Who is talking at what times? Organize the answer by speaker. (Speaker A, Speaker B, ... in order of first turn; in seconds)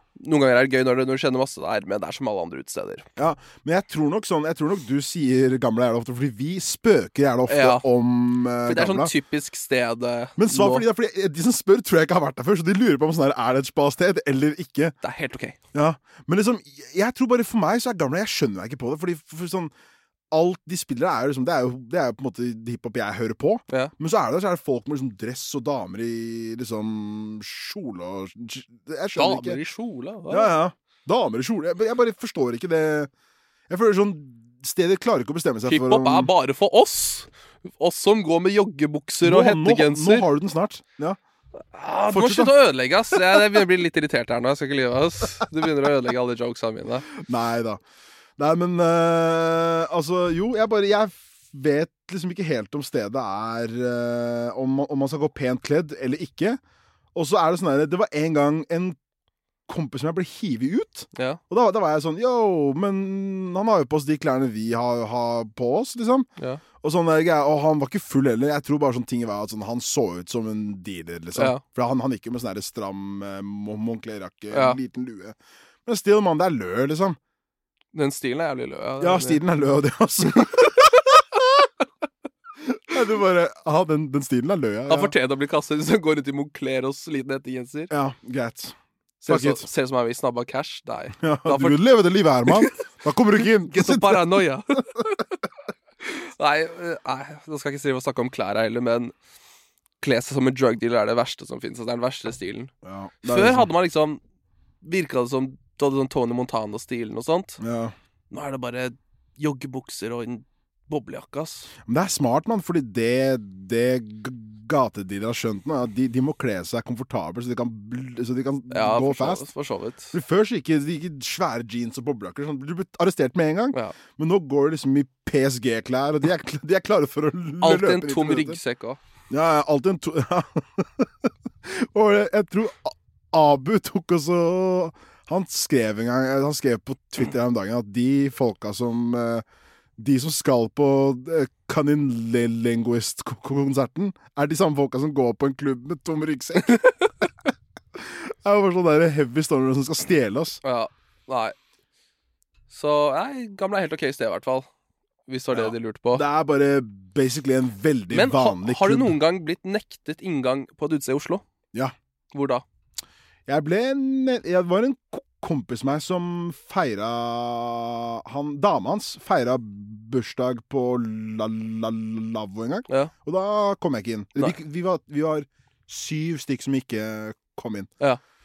Speaker A: 0.2-3.1, 7.5-7.8, 8.7-10.9, 15.0-15.6, 29.1-30.5, 35.7-40.3, 41.7-47.1, 61.1-61.4, 71.3-71.6, 74.5-74.8, 77.9-79.4, 84.9-87.9, 89.2-91.8, 92.5-92.8, 93.6-95.2, 96.0-99.1, 100.0-102.7, 103.2-104.2, 104.8-107.6, 108.3-111.7, 118.7-120.2, 127.6-129.0, 146.8-147.1, 150.6-151.6, 152.7-154.7, 155.3-156.2, 158.1-161.4, 162.3-162.6
Speaker B: 3.2-9.1, 10.4-15.0, 15.7-19.7, 20.3-29.6, 30.3-33.1, 33.7-36.3, 39.2-41.2, 42.1-42.6, 43.1-43.5, 47.2-47.8, 48.4-56.6, 57.1-59.0, 59.7-66.3, 66.8-77.2, 79.0-81.4, 82.7-85.1, 87.9-89.7, 91.2-94.4, 102.8-103.7, 107.6-108.0, 111.8-119.5, 120.1-128.6, 129.3-139.4, 140.0-146.8, 147.9-150.6, 155.5-159.2, 163.5-177.9